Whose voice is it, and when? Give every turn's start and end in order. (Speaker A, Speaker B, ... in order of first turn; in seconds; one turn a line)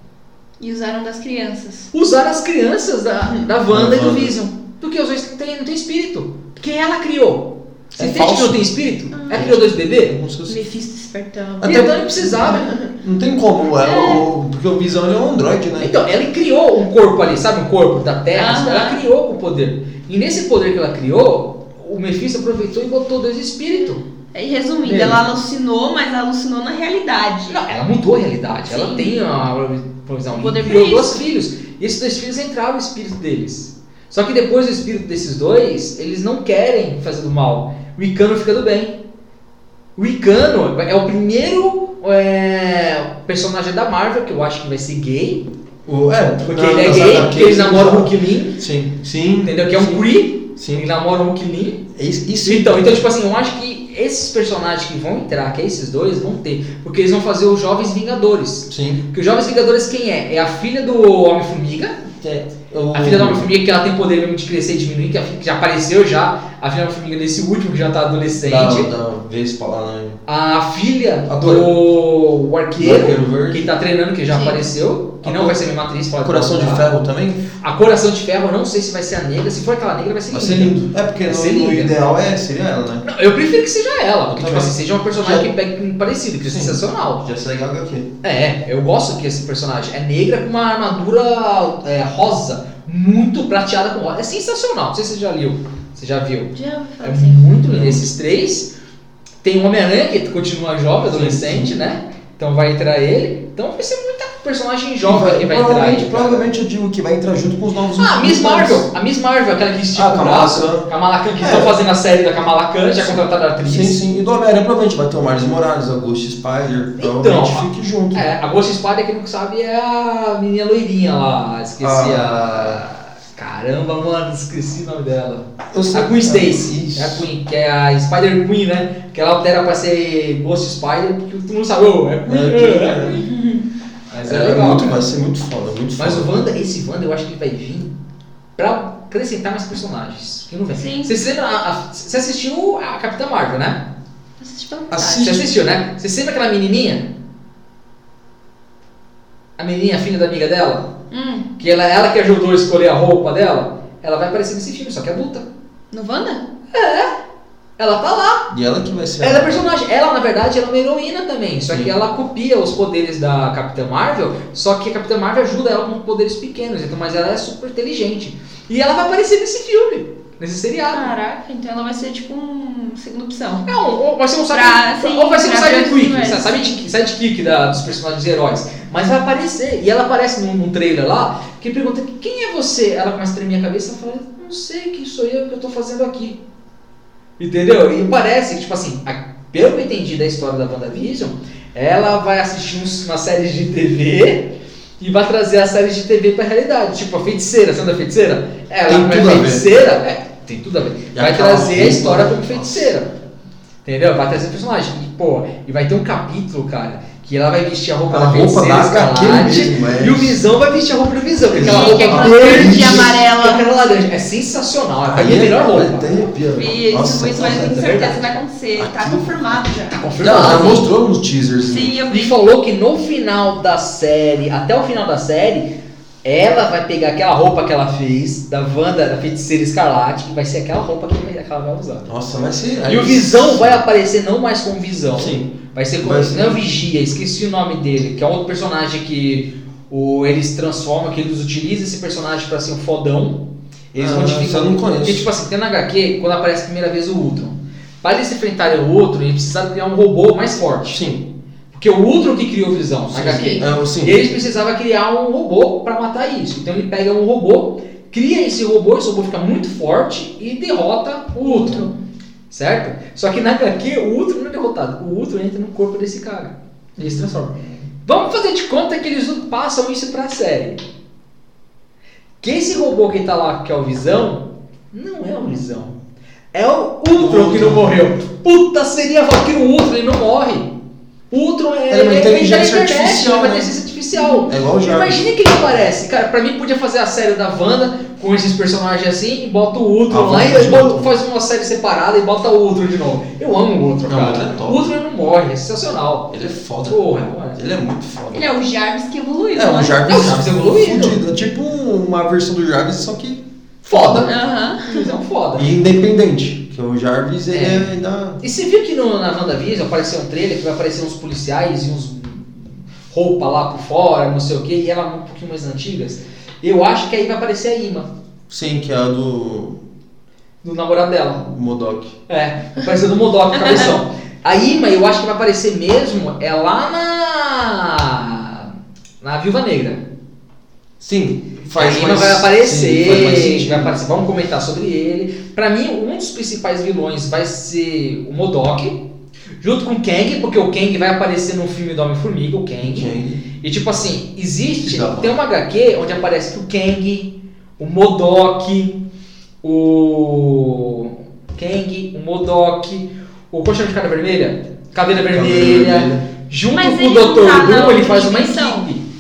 Speaker A: 0.6-1.9
Speaker B: 1.9-10.1
Speaker C: 3.7-4.3
Speaker C: 7.9-8.7
Speaker A: 9.1-9.4
Speaker C: 9.3-10.6
Speaker A: 10.4-11.8
Speaker C: 11.6-15.9
Speaker B: 11.6-12.7
Speaker A: 13.8-14.3
Speaker B: 15.8-24.0
Speaker A: 18.3-19.0
Speaker A: 24.3-27.6
Speaker B: 24.8-25.2
Speaker B: 27.5-39.0
Speaker A: 28.7-29.2
Speaker A: 30.3-31.3
Speaker B: 40.0-45.5
Speaker C: 45.9-50.8
Speaker B: 46.4-48.6
Speaker B: 49.4-51.9
Speaker C: 51.9-53.0
Speaker B: 52.4-62.0
Speaker C: 58.7-59.0
Speaker C: 62.2-63.5
Speaker B: 62.9-68.9
Speaker C: 68.4-70.2
Speaker B: 70.2-76.9
Speaker C: 71.3-71.7
Speaker C: 72.8-73.7
Speaker A: 74.3-74.6
Speaker C: 75.2-75.6
Speaker C: 76.2-77.4
Speaker B: 77.6-81.9
Speaker C: 80.3-83.0
Speaker B: 83.0-87.2
Speaker C: 84.3-85.5
Speaker C: 86.4-88.1
Speaker B: 88.2-98.7
Speaker A: 96.5-97.4
Speaker C: 97.7-98.1
Speaker B: 99.4-106.5
Speaker C: 101.1-101.7
Speaker C: 105.0-108.9
Speaker B: 108.0-114.0
Speaker C: 109.9-111.8
Speaker C: 113.0-118.3
Speaker B: 117.0-133.1
Speaker C: 121.8-122.8
Speaker C: 125.7-127.2
Speaker C: 132.2-133.2
Speaker A: 133.1-133.7
Speaker B: 134.1-135.0
Speaker C: 134.2-136.3
Speaker B: 136.0-137.9
Speaker B: 138.6-143.8
Speaker A: 140.7-141.1
Speaker A: 144.4-145.4
Speaker C: 144.9-145.5
Speaker B: 145.1-147.1
Speaker B: 149.6-150.9
Speaker A: 151.1-151.5
Speaker B: 151.6-155.5
Speaker A: 155.9-156.4
Speaker B: 156.7-157.1
Speaker B: 157.8-158.5
Speaker C: 158.5-159.6
Speaker B: 159.2-171.1
Speaker A: 170.9-173.7
Speaker B: 173.7-186.4
Speaker A: 174.5-176.8
Speaker B: 187.4-203.1
Speaker C: 198.9-199.7
Speaker C: 201.1-202.9
Speaker B: 203.8-216.2
Speaker C: 208.1-210.4
Speaker A: 211.5-213.6
Speaker C: 211.5-213.1
Speaker C: 215.1-218.2
Speaker A: 216.4-220.7
Speaker B: 217.4-218.2
Speaker C: 218.8-219.3
Speaker B: 219.9-220.8
Speaker C: 220.2-222.0
Speaker A: 221.6-222.3
Speaker B: 222.1-225.7
Speaker B: 226.2-232.1
Speaker C: 232.1-233.8
Speaker B: 232.9-251.0
Speaker C: 235.1-236.6
Speaker C: 244.0-245.3
Speaker C: 250.9-251.2
Speaker B: 251.7-261.9
Speaker C: 253.1-254.2
Speaker A: 253.2-253.6
Speaker A: 261.4-261.9
Speaker B: 262.5-270.8
Speaker C: 267.0-267.4
Speaker B: 272.4-275.9
Speaker B: 276.5-280.7
Speaker C: 277.1-277.9
Speaker B: 281.3-296.3
Speaker C: 281.9-283.7
Speaker A: 284.1-284.5
Speaker C: 284.5-285.2
Speaker C: 290.1-291.1
Speaker C: 294.1-294.9
Speaker C: 296.3-297.0
Speaker B: 296.9-297.6
Speaker C: 297.5-298.5
Speaker A: 298.3-300.1
Speaker C: 299.5-304.3
Speaker B: 300.1-301.2
Speaker B: 303.9-305.6
Speaker A: 304.2-305.1
Speaker C: 305.6-308.4
Speaker B: 307.5-318.1
Speaker C: 318.5-319.8
Speaker B: 320.6-321.4
Speaker C: 321.4-322.1
Speaker B: 322.3-328.7
Speaker B: 329.2-330.0
Speaker C: 331.0-334.0
Speaker B: 331.7-339.0
Speaker B: 339.6-349.0
Speaker C: 342.8-343.4
Speaker C: 344.8-345.4
Speaker B: 349.6-359.0
Speaker C: 355.3-356.2
Speaker A: 356.7-358.9